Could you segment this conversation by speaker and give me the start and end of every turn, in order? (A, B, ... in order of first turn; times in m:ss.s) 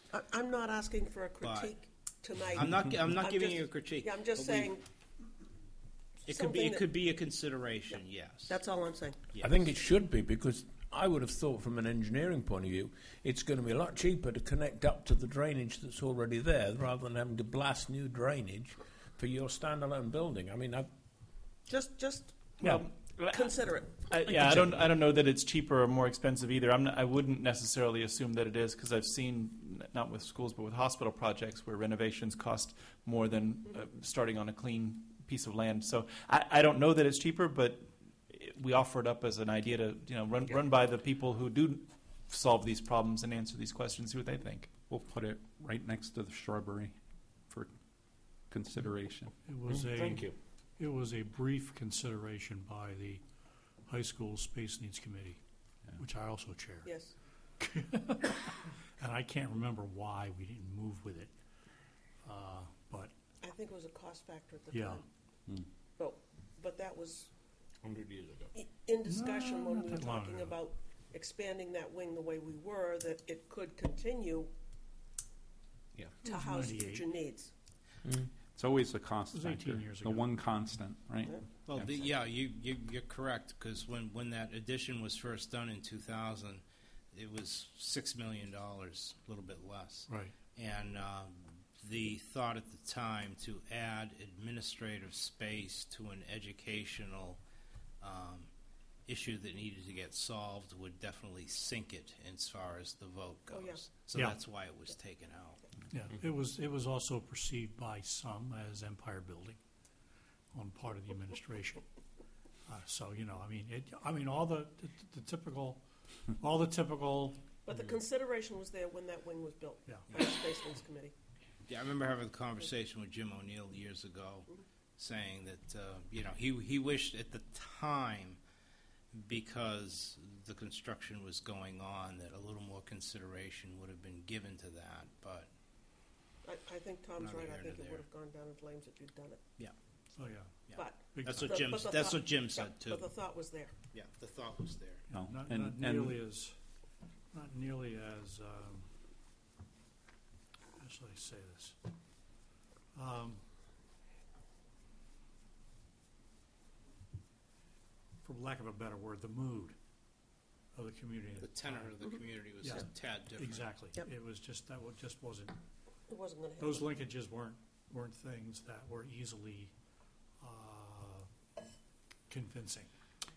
0:00.1-0:04.8 A
0:01.4-0:01.7 B
0:02.5-0:04.7 B
0:06.3-0:06.9 A
0:06.3-0:08.6 B
0:08.5-0:09.2 A
0:09.4-0:20.9 C
0:21.7-0:24.7 A
0:22.6-0:44.7 D
0:44.9-0:47.0 E
0:48.5-0:49.3 E
0:49.5-0:53.2 F
0:49.7-0:50.3 C
0:53.9-0:55.4 F
0:56.0-0:56.9 F
0:56.8-0:57.1 A
0:57.6-1:01.3 F
1:02.2-1:03.1 F
1:03.4-1:05.1 A
1:04.7-1:05.0 F
1:06.0-1:07.3 A
1:07.9-1:08.5 C
1:08.5-1:14.5 A
1:09.1-1:10.6 F
1:16.2-1:17.1 F
1:16.2-1:17.5 A
1:18.5-1:22.0 E
1:19.3-1:20.4 F
1:21.7-1:37.4 B
1:30.1-1:30.4 F
1:38.0-1:38.5 B
1:39.1-1:45.6 B
1:43.5-1:43.8 A
1:45.9-1:49.6 F
1:50.5-1:51.8 F
1:52.7-1:55.8 F
1:56.4-1:57.4 F
1:57.6-2:01.1 A
2:01.7-2:08.4 B
2:09.1-2:15.5 B
2:16.4-2:19.4 A
2:17.2-2:18.0 B
2:20.2-2:20.6 F
2:20.7-2:23.1 B
2:20.7-2:23.7 A
2:21.1-2:21.8 F
2:23.9-2:25.0 B
2:25.1-2:26.6 F
2:25.1-2:26.2 E
2:27.3-2:28.9 F
2:30.8-2:31.8 F
2:32.9-2:33.4 F
2:38.2-2:39.8 F
2:40.7-2:42.0 F
2:41.4-2:43.7 B
2:42.6-2:45.6 F
2:46.1-2:46.9 A
2:46.6-2:49.7 F
2:50.4-2:51.3 F
2:52.3-2:52.9 F